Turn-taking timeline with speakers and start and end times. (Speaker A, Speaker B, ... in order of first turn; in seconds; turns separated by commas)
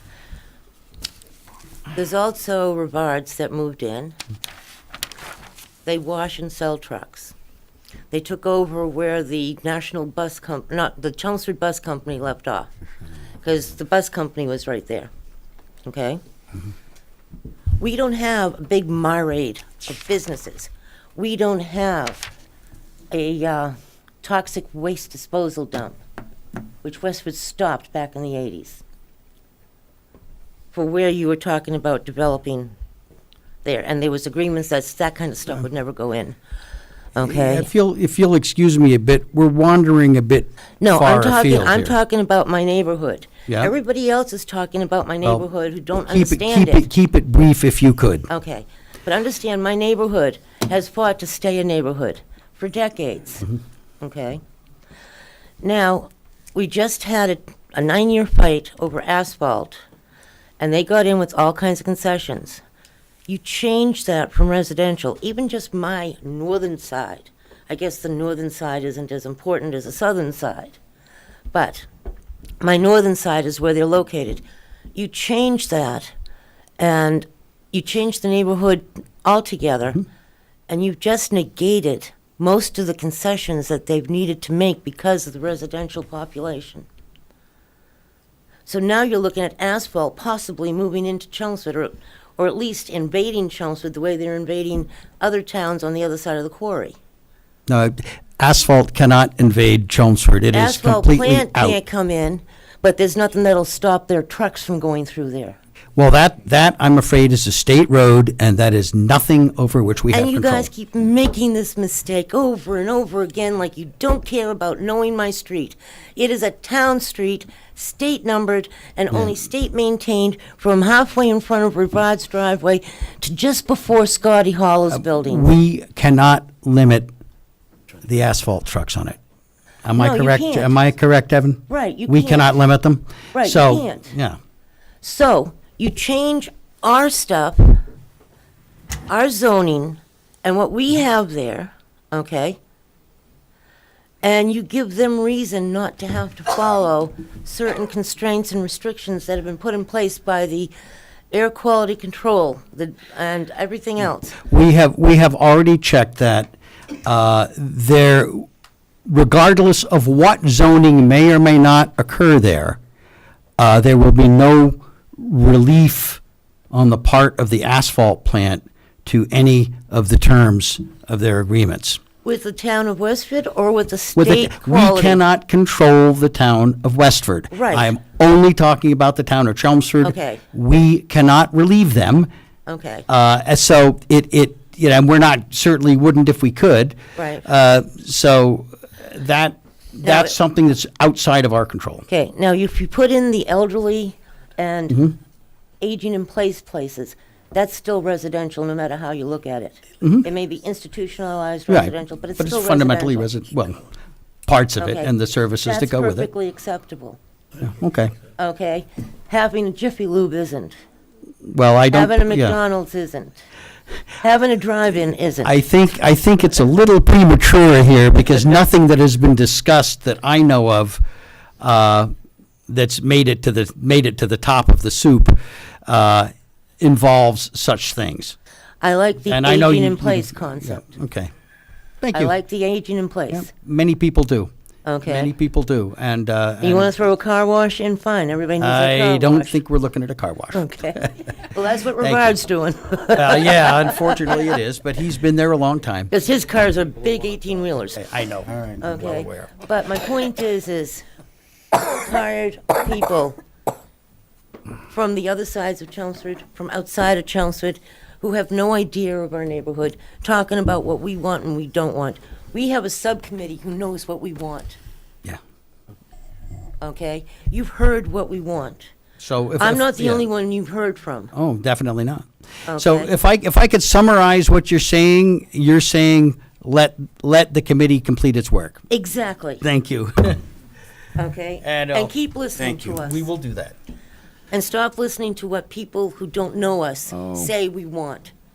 Speaker A: 1.9-4.2, Speaker A: 5.8-7.3, Speaker A: 8.1-12.7, Speaker A: 13.4-15.1, Speaker A: 15.8-16.2, Speaker A: 17.8-22.3, Speaker A: 23.1-26.0, Speaker A: 26.8-28.8, Speaker A: 30.7-32.7, Speaker A: 33.6-36.4, Speaker A: 37.1-37.7, Speaker B: 37.2-42.0, Speaker A: 40.8-46.9, Speaker B: 46.1-48.3, Speaker A: 48.3-53.5, Speaker A: 54.0-54.4, Speaker A: 55.6-59.8, Speaker A: 60.6-62.6, Speaker A: 63.3-70.8, Speaker A: 71.5-71.9, Speaker A: 72.6-74.4, Speaker A: 74.9-76.1, Speaker A: 76.8-80.0, Speaker A: 80.7-86.8, Speaker A: 88.7-97.0, Speaker B: 97.7-101.8, Speaker A: 100.5-105.5, Speaker B: 106.0-110.7, Speaker A: 110.1-125.5, Speaker B: 124.9-127.1, Speaker B: 128.0-129.2, Speaker B: 129.8-134.4, Speaker A: 130.0-130.8, Speaker A: 131.7-132.6, Speaker A: 133.3-134.1, Speaker A: 135.0-137.8, Speaker A: 139.1-142.6, Speaker A: 144.2-150.7, Speaker A: 151.3-154.4, Speaker B: 154.4-156.5, Speaker B: 157.0-158.4, Speaker B: 159.1-162.8, Speaker B: 163.6-172.0, Speaker A: 172.2-175.2, Speaker B: 174.2-182.3, Speaker A: 177.5-177.9, Speaker A: 180.0-180.4, Speaker A: 182.7-183.0, Speaker B: 183.1-192.1, Speaker A: 187.2-187.4, Speaker A: 190.0-190.3, Speaker A: 192.1-195.0, Speaker B: 194.9-195.1, Speaker A: 195.8-203.3, Speaker B: 201.7-203.8, Speaker B: 204.5-206.3, Speaker A: 204.8-207.2, Speaker B: 207.6-208.1, Speaker A: 208.4-210.7, Speaker B: 211.5-212.6, Speaker A: 211.9-213.4, Speaker A: 214.2-215.5, Speaker B: 215.4-221.0, Speaker B: 221.6-222.1, Speaker B: 222.7-228.3, Speaker A: 228.8-230.8, Speaker B: 229.3-231.3, Speaker B: 232.0-232.3, Speaker A: 232.1-233.5, Speaker B: 233.3-234.5, Speaker A: 234.8-235.3, Speaker B: 235.1-236.9, Speaker A: 236.6-239.6, Speaker B: 238.6-241.2, Speaker A: 240.5-244.3, Speaker B: 242.0-242.3, Speaker B: 243.1-246.1, Speaker A: 246.1-248.0, Speaker B: 247.9-249.3, Speaker A: 248.8-251.0, Speaker A: 251.7-253.4, Speaker A: 254.9-264.8, Speaker A: 266.8-268.9, Speaker B: 269.2-270.2, Speaker A: 269.6-271.3, Speaker B: 271.3-278.8, Speaker A: 272.7-273.1, Speaker A: 278.9-279.6, Speaker B: 279.6-280.4, Speaker A: 281.2-283.2, Speaker B: 281.6-283.8, Speaker A: 284.5-288.3